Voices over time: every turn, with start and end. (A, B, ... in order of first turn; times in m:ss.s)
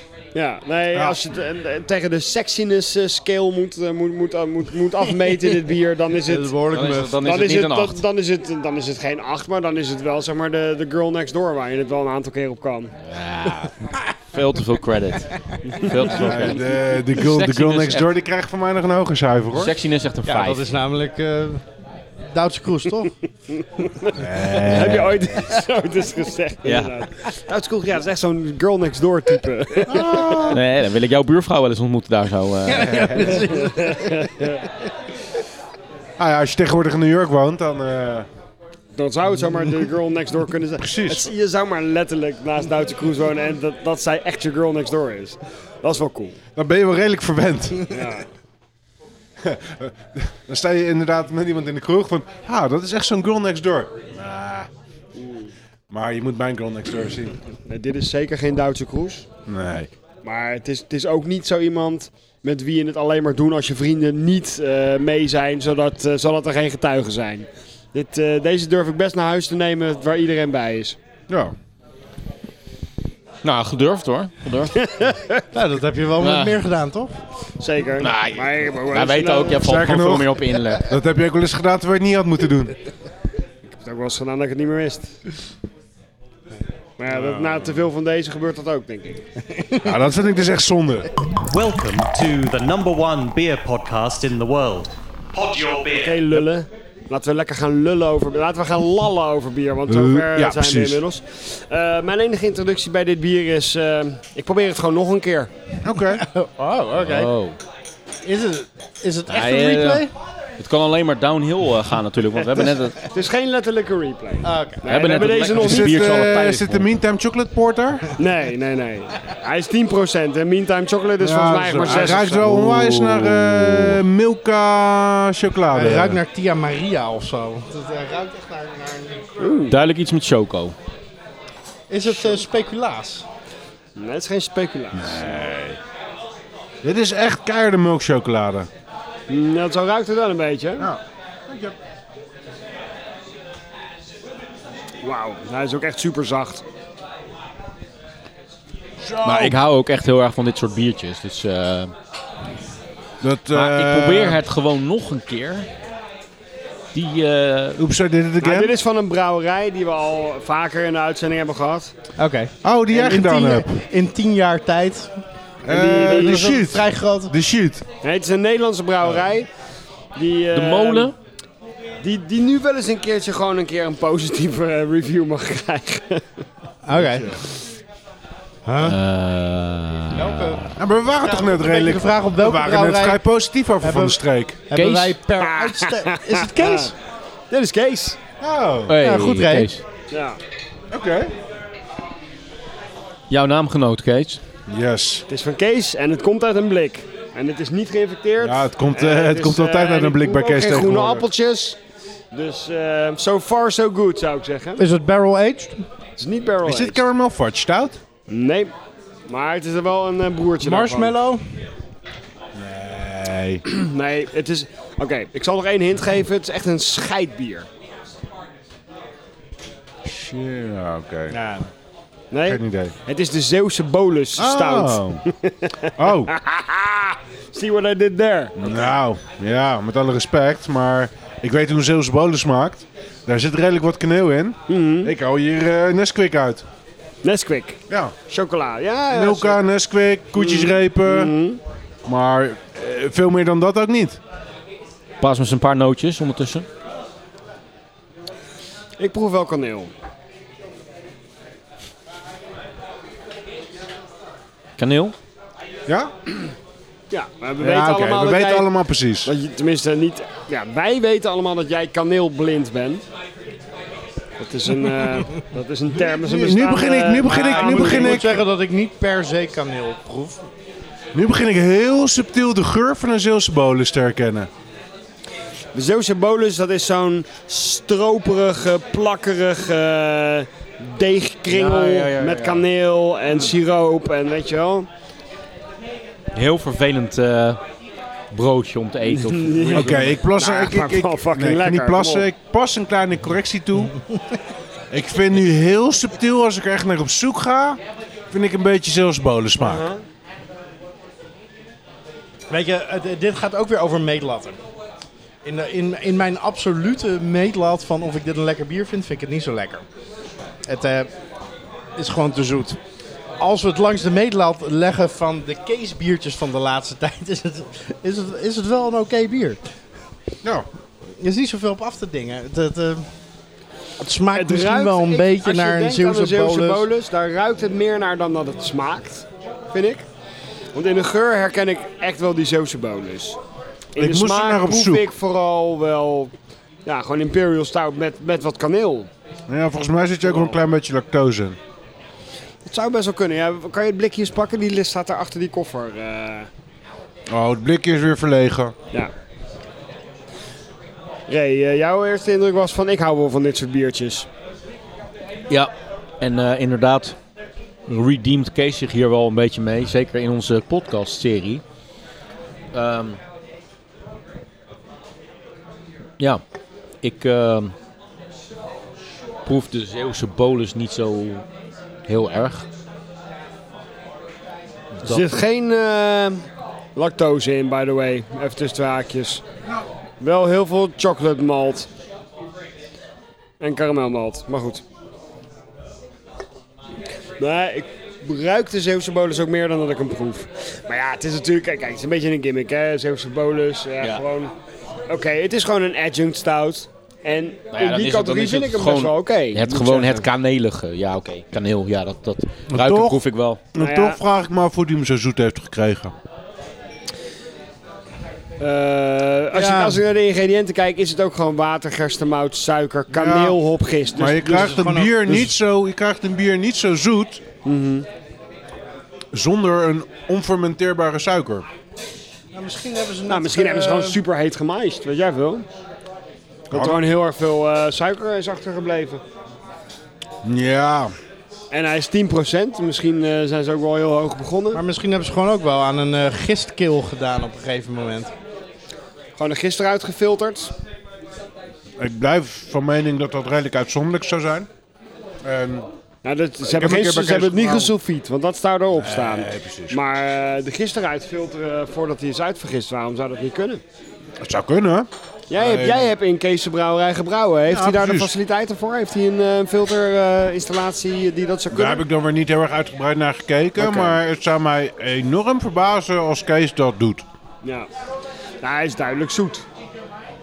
0:00.4-0:06.5 A
0:00.9-0:01.2 B
0:06.2-0:07.2 C
0:06.7-0:08.0 D
0:07.2-0:12.9 A
0:13.0-0:13.7 D
0:14.3-0:18.1 D
0:15.7-0:16.2 A
0:16.1-0:19.8 B
0:19.5-0:20.7 D
0:20.2-0:21.6 C
0:22.2-0:23.1 C
0:23.6-0:30.5 A
0:24.2-0:25.3 B
0:24.5-0:25.0 D
0:26.6-0:26.9 D
0:29.9-0:30.6 B
0:30.5-0:33.3 D
0:32.7-0:34.3 C
0:32.8-0:33.3 B
0:33.5-0:34.7 A
0:36.2-0:38.3 B
0:39.0-0:46.4 A
0:40.8-0:41.3 B
0:46.6-0:48.1 B
0:47.9-0:48.3 A
0:49.4-0:54.7 B
0:55.2-0:55.5 A
0:55.9-0:57.4 B
0:57.6-0:59.3 A
0:59.5-0:59.9 B
1:00.2-1:11.0 A
1:11.3-1:11.6 B
1:13.4-1:14.8 D
1:14.8-1:15.4 A
1:15.5-1:17.2 C
1:16.2-1:16.6 D
1:17.6-1:19.6 A
1:18.0-1:20.9 D
1:19.6-1:22.8 B
1:23.6-1:25.2 A
1:27.0-1:29.2 A
1:27.1-1:27.9 B
1:29.5-1:30.0 C
1:29.8-1:31.1 B
1:31.5-1:36.3 E
1:36.0-1:45.5 A
1:39.9-1:41.0 B
1:45.8-1:46.2 B
1:46.1-1:47.3 C
1:46.9-1:47.6 D
1:48.2-1:50.1 C
1:49.3-1:53.0 D
1:53.1-1:56.3 A
1:54.4-1:54.9 C
1:54.8-1:56.9 D
1:55.5-1:58.2 B
1:58.2-2:02.6 A
2:01.2-2:06.2 B
2:02.3-2:04.0 D
2:05.7-2:09.5 C
2:09.4-2:09.8 A
2:09.7-2:10.8 D
2:11.9-2:13.2 C
2:14.0-2:15.2 A
2:14.9-2:15.8 B
2:16.8-2:18.7 B
2:19.3-2:20.9 A
2:20.8-2:21.8 B
2:25.0-2:26.6 A
2:29.0-2:29.6 B
2:29.2-2:31.9 D
2:33.2-2:34.4 B
2:33.5-2:35.7 D
2:36.9-2:37.8 D
2:37.8-2:38.8 B
2:38.4-2:41.9 A
2:42.2-2:45.2 C
2:42.6-2:43.7 B
2:45.6-2:47.9 B
2:45.7-2:46.5 A
2:45.9-2:47.3 C
2:48.0-2:49.5 A
2:50.2-2:51.1 A
2:50.5-2:51.1 D
2:52.0-2:56.2 A
2:56.8-2:57.4 C
2:56.9-2:57.4 B
2:58.6-2:59.0 C
2:58.8-3:00.8 D
3:00.1-3:03.3 C
3:00.8-3:04.6 B
3:03.8-3:06.9 C
3:04.7-3:05.2 D
3:05.4-3:06.9 A
3:07.5-3:08.2 A
3:08.4-3:09.0 B
3:08.9-3:09.8 D
3:09.0-3:09.7 C
3:10.1-3:10.4 A
3:10.9-3:11.3 B
3:13.3-3:14.4 D
3:14.7-3:15.3 B
3:15.3-3:21.8 A
3:18.4-3:21.3 B
3:22.3-3:24.8 A
3:24.8-3:25.9 C
3:26.2-3:27.1 A
3:26.6-3:28.0 B
3:28.3-3:28.7 A
3:29.3-3:31.2 A
3:30.6-3:31.4 C
3:32.6-3:33.6 B
3:33.7-3:37.7 A
3:40.0-3:41.4 B
3:41.3-3:41.7 C
3:42.3-3:48.9 A
3:42.4-3:43.0 B
3:44.4-3:45.2 B
3:46.0-3:46.3 B
3:48.6-3:56.7 B
3:54.7-3:55.1 A
3:57.2-3:59.6 A
3:57.9-3:58.2 B
3:59.1-4:01.3 B
4:00.3-4:01.6 A
4:02.0-4:04.2 B
4:05.2-4:06.7 D
4:09.0-4:09.9 A
4:14.8-4:15.2 D
4:15.9-4:16.1 B
4:17.1-4:18.7 A
4:17.6-4:19.3 B
4:19.2-4:23.0 A
4:24.4-4:28.3 A
4:26.0-4:28.4 B
4:27.3-4:30.5 C
4:31.1-4:34.5 B
4:35.7-4:44.9 A
4:41.5-4:42.6 D
4:46.4-4:47.6 D
4:48.3-4:50.2 D
4:49.1-4:52.3 A
4:49.7-4:54.0 B
4:54.9-4:59.9 B
4:59.6-5:00.0 A
5:02.5-5:04.6 C
5:05.4-5:09.9 C
5:10.6-5:11.1 C
5:12.0-5:12.8 C
5:13.4-5:19.8 C
5:21.2-5:23.1 C
5:24.0-5:26.9 C
5:24.4-5:30.0 A
5:30.8-5:33.4 A
5:34.0-5:36.3 A
5:34.0-5:35.1 B
5:36.8-5:39.1 A
5:39.5-5:41.6 B
5:40.2-5:40.6 A
5:42.6-5:46.5 A
5:47.3-5:48.8 B
5:51.3-5:54.3 A
5:55.5-5:57.2 D
5:57.9-6:01.6 D
6:02.7-6:03.2 D
6:07.0-6:07.8 D
6:09.4-6:11.4 D
6:12.1-6:12.7 D
6:15.0-6:15.3 D
6:15.0-6:16.4 A
6:17.0-6:19.4 A
6:20.2-6:21.9 A
6:23.6-6:24.8 A
6:27.4-6:34.5 A
6:35.1-6:40.3 A
6:37.7-6:43.6 D
6:42.7-6:46.2 B
6:43.8-6:44.2 A
6:48.6-6:54.7 A
6:49.5-6:50.0 C
6:53.1-6:53.6 B
6:54.1-6:57.4 B
6:54.4-6:55.6 C
6:57.6-6:58.1 A
6:59.3-7:01.7 B
7:02.5-7:04.2 C
7:03.3-7:05.7 A
7:06.7-7:07.1 B
7:06.7-7:09.2 A
7:10.4-7:11.1 B
7:11.7-7:14.8 A
7:14.7-7:18.3 C
7:19.4-7:20.7 A
7:22.0-7:24.7 B
7:25.4-7:25.9 B
7:26.2-7:33.8 A
7:26.6-7:27.9 B
7:29.0-7:30.0 B
7:34.4-7:36.1 B
7:35.5-7:42.0 A
7:37.7-7:38.3 B
7:41.7-7:47.3 B
7:43.8-7:44.2 A
7:47.6-7:47.9 A
7:48.6-7:49.7 A